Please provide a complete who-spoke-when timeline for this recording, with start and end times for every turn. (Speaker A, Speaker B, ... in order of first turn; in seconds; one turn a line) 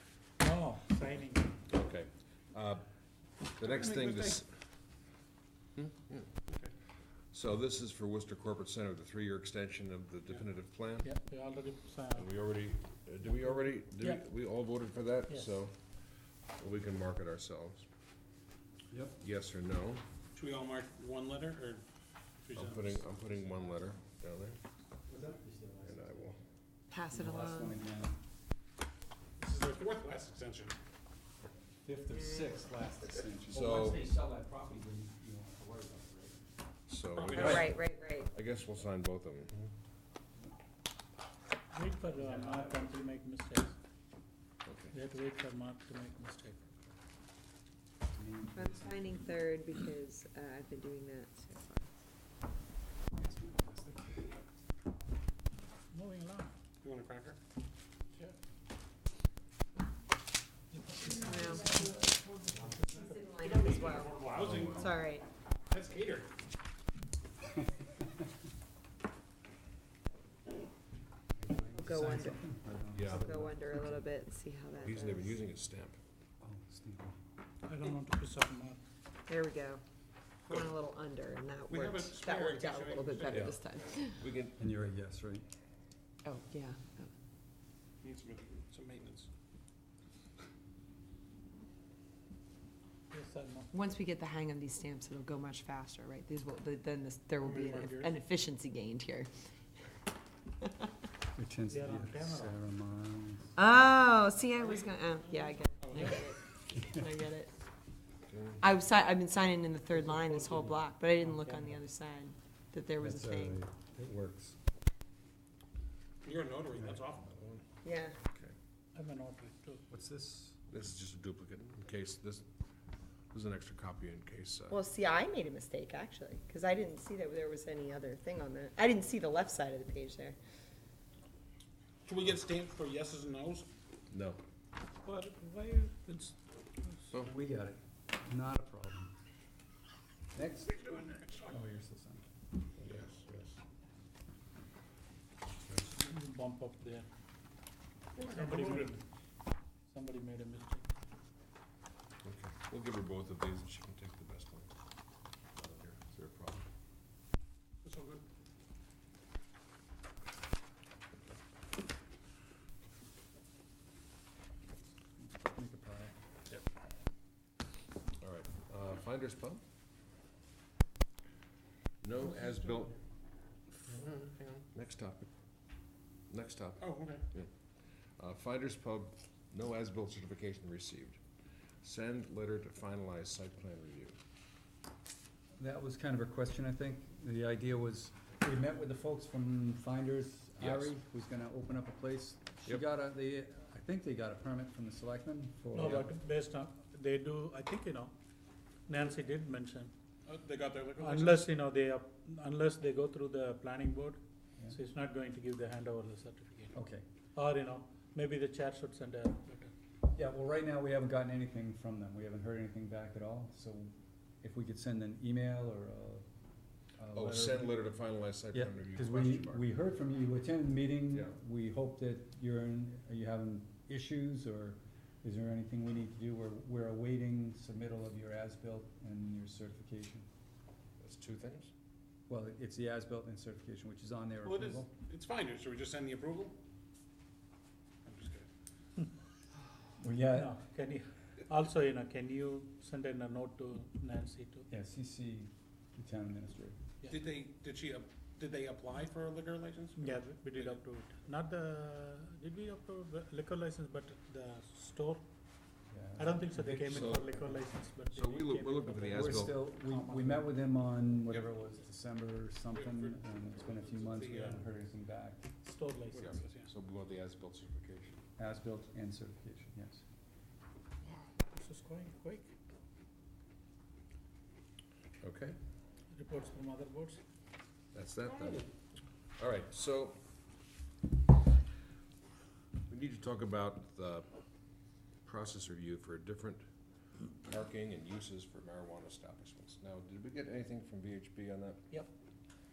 Speaker A: 0.4-1.5
Speaker B: 1.7-2.9
Speaker B: 3.6-4.5
Speaker C: 3.6-4.4
Speaker B: 5.8-6.4
Speaker C: 6.5-6.7
Speaker B: 7.3-11.1
Speaker A: 11.0-12.3
Speaker B: 12.2-15.8
Speaker A: 15.3-15.6
Speaker B: 16.5-17.9
Speaker D: 18.9-19.2
Speaker B: 19.2-20.0
Speaker C: 20.4-21.8
Speaker C: 22.5-23.1
Speaker B: 22.6-24.6
Speaker D: 25.1-26.3
Speaker B: 25.8-26.4
Speaker E: 26.9-27.7
Speaker D: 27.1-28.2
Speaker C: 29.4-30.8
Speaker D: 31.8-36.4
Speaker B: 33.5-34.1
Speaker B: 36.9-39.7
Speaker C: 37.1-37.7
Speaker E: 37.4-38.3
Speaker A: 41.7-43.8
Speaker D: 42.1-42.8
Speaker B: 44.6-45.0
Speaker A: 44.9-46.6
Speaker D: 48.1-49.2
Speaker E: 48.5-51.9
Speaker D: 53.2-54.3
Speaker A: 55.9-56.5
Speaker C: 56.8-57.4
Speaker A: 60.7-62.0
Speaker E: 61.1-64.1
Speaker A: 62.5-63.3
Speaker C: 62.7-64.9
Speaker B: 64.4-64.9
Speaker E: 64.8-65.2
Speaker C: 65.7-66.3
Speaker D: 71.4-74.0
Speaker E: 71.8-72.4
Speaker B: 72.9-73.3
Speaker E: 73.1-75.4
Speaker B: 74.8-76.0
Speaker D: 76.4-77.2
Speaker A: 77.7-78.8
Speaker E: 79.3-79.8
Speaker E: 80.5-84.2
Speaker C: 81.7-83.6
Speaker B: 83.3-83.6
Speaker B: 84.2-84.6
Speaker D: 84.6-85.5
Speaker E: 86.2-87.1
Speaker C: 88.0-89.3
Speaker A: 93.1-93.7
Speaker E: 93.7-99.3
Speaker C: 97.4-98.1
Speaker A: 97.5-98.1
Speaker E: 100.6-100.9
Speaker D: 101.3-103.5
Speaker A: 101.7-102.5
Speaker E: 103.6-107.5
Speaker C: 104.5-106.4
Speaker B: 108.3-108.6
Speaker E: 108.6-113.6
Speaker A: 109.9-111.8
Speaker D: 113.0-114.6
Speaker C: 116.2-117.3
Speaker B: 117.2-117.7
Speaker E: 117.8-118.2
Speaker A: 119.0-119.8
Speaker D: 119.9-120.6
Speaker B: 120.7-122.5
Speaker B: 123.3-124.8
Speaker E: 124.7-130.4
Speaker C: 132.1-133.7
Speaker B: 134.1-134.4
Speaker A: 135.0-137.1
Speaker D: 137.1-139.1
Speaker D: 140.3-140.8
Speaker C: 140.8-141.4
Speaker D: 141.4-142.3
Speaker B: 142.8-143.6
Speaker A: 145.8-147.1
Speaker C: 148.2-149.0
Speaker A: 148.2-149.0
Speaker A: 149.9-150.9
Speaker B: 152.2-154.7
Speaker B: 155.6-156.7
Speaker C: 157.8-158.2
Speaker D: 165.2-166.1
Speaker B: 168.2-169.6
Speaker B: 172.0-173.0
Speaker B: 173.9-175.3
Speaker B: 176.3-177.5
Speaker C: 176.8-177.2
Speaker B: 178.2-181.2
Speaker B: 181.8-184.2
Speaker D: 185.6-196.1
Speaker B: 190.6-190.9
Speaker A: 195.7-198.1
Speaker A: 198.9-199.9
Speaker C: 200.3-201.4
Speaker A: 201.0-206.8
Speaker D: 206.7-207.1
Speaker A: 207.3-209.7
Speaker D: 210.1-213.9
Speaker D: 214.4-216.2
Speaker D: 217.0-217.9
Speaker B: 217.1-219.7
Speaker D: 218.5-230.3
Speaker B: 231.0-231.7
Speaker D: 232.3-234.9
Speaker C: 234.4-236.6
Speaker C: 238.0-238.5
Speaker D: 240.0-240.6
Speaker A: 240.3-244.7
Speaker D: 244.7-246.8
Speaker A: 247.0-247.3
Speaker C: 247.1-250.8
Speaker A: 250.0-255.2
Speaker D: 255.9-257.6
Speaker A: 256.2-260.6
Speaker B: 256.9-257.2
Speaker B: 258.1-259.6
Speaker D: 259.1-265.4
Speaker C: 262.7-264.8
Speaker A: 265.6-266.4
Speaker C: 266.1-266.7
Speaker B: 266.2-268.2
Speaker D: 268.4-270.0
Speaker A: 271.1-272.5
Speaker B: 275.2-275.6
Speaker A: 276.1-277.2
Speaker B: 277.9-278.7
Speaker B: 279.4-280.2
Speaker B: 282.9-284.3
Speaker B: 285.2-286.7
Speaker B: 287.4-291.8